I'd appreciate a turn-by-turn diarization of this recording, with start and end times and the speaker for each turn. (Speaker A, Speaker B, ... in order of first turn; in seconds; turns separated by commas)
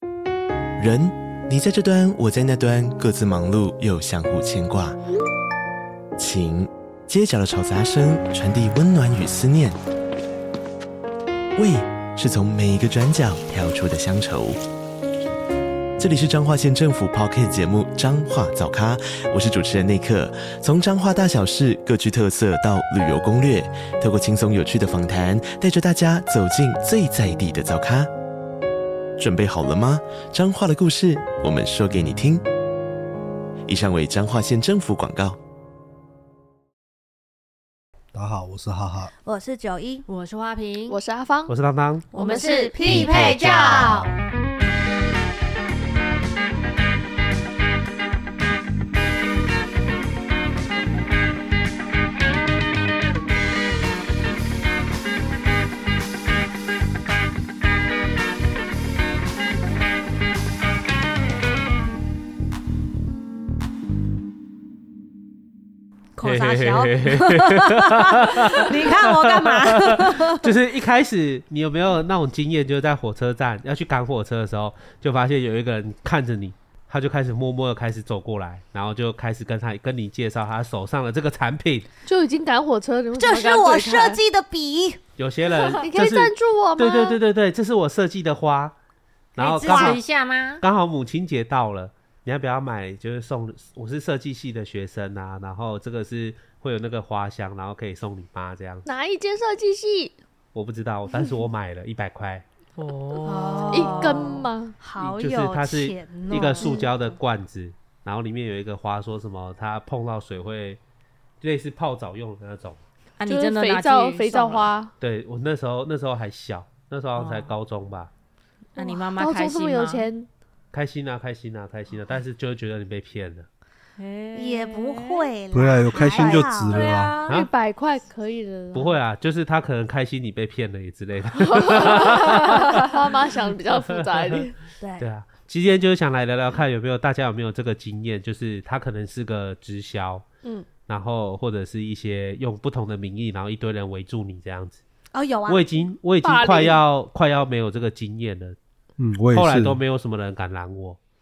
Speaker A: 0.8-5.0, Speaker A: 6.2-9.8, Speaker A: 11.6-14.6, Speaker A: 16.0-28.1, Speaker A: 29.2-32.5, Speaker A: 33.7-35.4, Speaker B: 38.1-39.1, Speaker C: 39.2-40.1, Speaker D: 40.1-41.0, Speaker E: 40.9-41.5, Speaker F: 41.5-42.1, Speaker E: 42.1-42.7, Speaker D: 42.1-44.1, Speaker C: 42.2-44.1, Speaker C: 66.2-70.4, Speaker F: 66.2-81.9, Speaker E: 82.1-84.2, Speaker C: 83.1-85.0, Speaker F: 85.2-88.8, Speaker E: 85.5-87.2, Speaker F: 89.3-90.0, Speaker C: 89.4-90.0, Speaker D: 89.4-90.6, Speaker F: 90.6-98.8, Speaker E: 98.8-100.1, Speaker F: 100.5-102.5, Speaker D: 102.8-104.0, Speaker C: 103.2-106.9, Speaker E: 103.7-104.8, Speaker F: 105.0-110.8, Speaker F: 111.4-112.8, Speaker D: 113.2-114.7, Speaker E: 113.3-114.9, Speaker F: 115.0-118.1, Speaker D: 117.2-117.5, Speaker D: 118.8-120.1, Speaker E: 118.8-120.3, Speaker F: 120.7-123.5, Speaker D: 124.0-125.3, Speaker C: 124.3-127.0, Speaker B: 125.5-127.2, Speaker D: 126.2-127.2, Speaker E: 126.9-128.9, Speaker F: 128.7-132.8, Speaker E: 131.5-134.6, Speaker F: 133.8-134.4, Speaker C: 134.8-135.1, Speaker F: 135.0-140.2, Speaker F: 140.9-144.8, Speaker C: 145.1-145.9, Speaker F: 145.5-148.6, Speaker E: 146.2-146.8, Speaker B: 149.0-149.8, Speaker F: 149.3-151.0